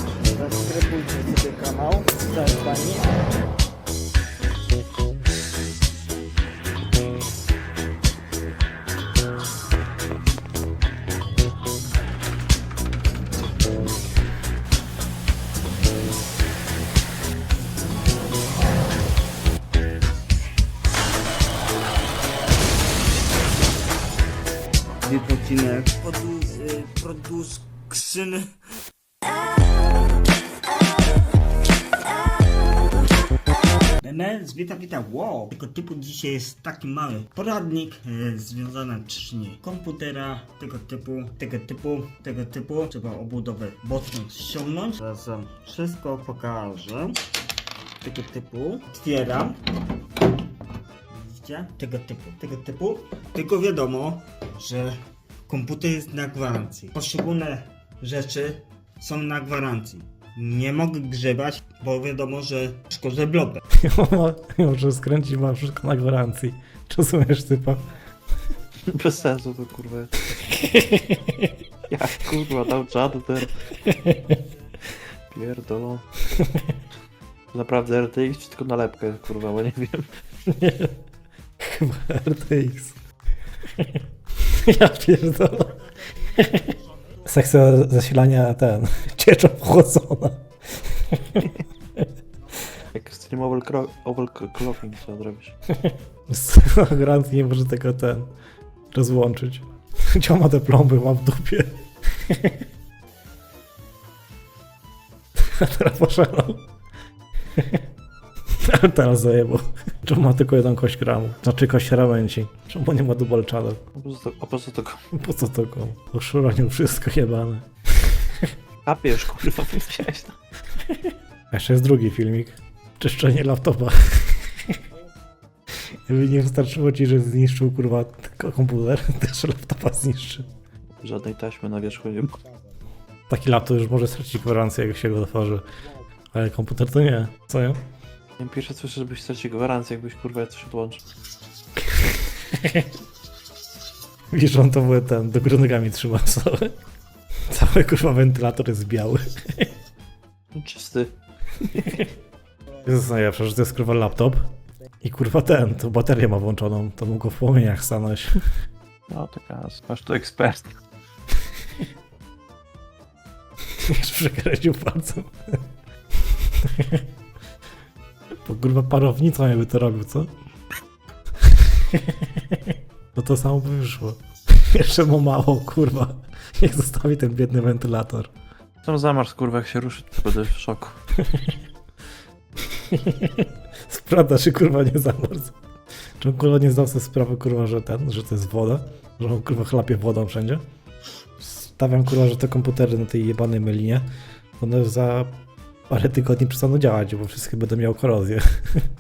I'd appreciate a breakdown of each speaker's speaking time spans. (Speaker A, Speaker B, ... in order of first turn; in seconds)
Speaker A: 0.3-3.2, 25.0-28.5, 34.0-47.2, 48.0-49.6, 51.1-55.0, 55.5-63.6
Speaker B: 63.8-67.8, 70.5-71.5, 73.8-74.4, 76.4-76.7, 80.5-80.9, 81.6-83.0, 83.8-85.8, 86.3-86.8, 87.3-92.1, 95.7-98.3, 98.9-102.6, 105.4-106.6, 107.6-107.8, 108.6-113.8, 115.1-118.5, 120.8-124.8, 126.1-130.5, 133.3-135.6, 136.3-137.8, 141.8-142.9, 144.3-146.7, 147.5-149.7, 151.8-152.1, 152.8-154.5, 155.0-158.4, 163.9-165.6, 166.6-167.0, 168.4-170.3, 171.5-178.3, 181.2-181.6, 182.7-185.6, 186.2-190.6, 191.4-194.1, 194.6-195.3, 195.9-198.8
Speaker C: 68.9-70.3, 71.9-73.5, 75.3-76.3, 77.5-80.0, 92.9-95.5, 114.0-115.0, 118.8-120.4, 130.9-132.4, 138.4-141.0, 150.5-151.1, 151.7-152.0, 159.1-160.8, 178.8-181.0